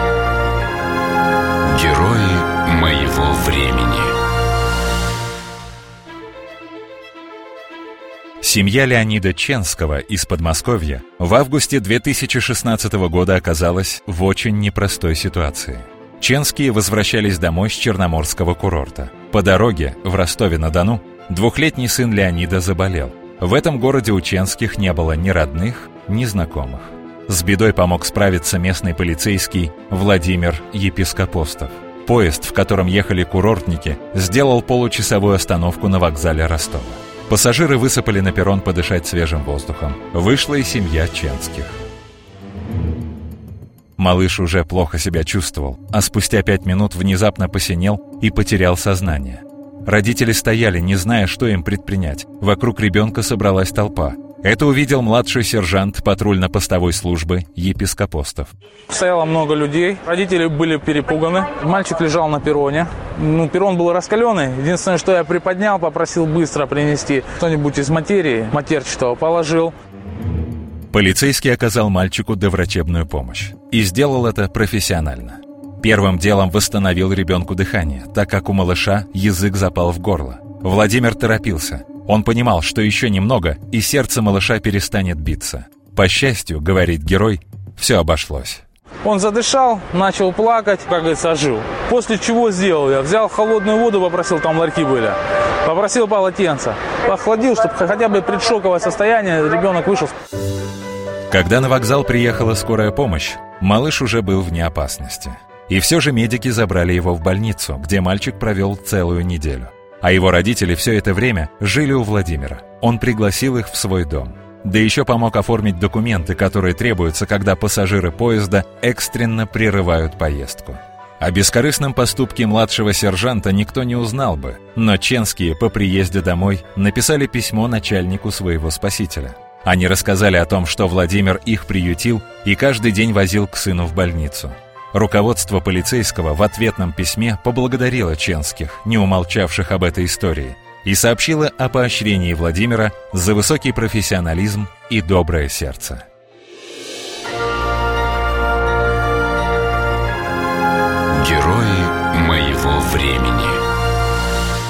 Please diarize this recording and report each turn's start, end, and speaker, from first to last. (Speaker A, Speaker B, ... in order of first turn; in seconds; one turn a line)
Speaker A: 1.6-4.2
Speaker B: 8.4-41.8
Speaker B: 44.0-58.5
Speaker C: 58.9-69.7
Speaker B: 70.9-88.6
Speaker C: 89.0-100.1
Speaker B: 101.3-146.1
Speaker A: 151.1-153.7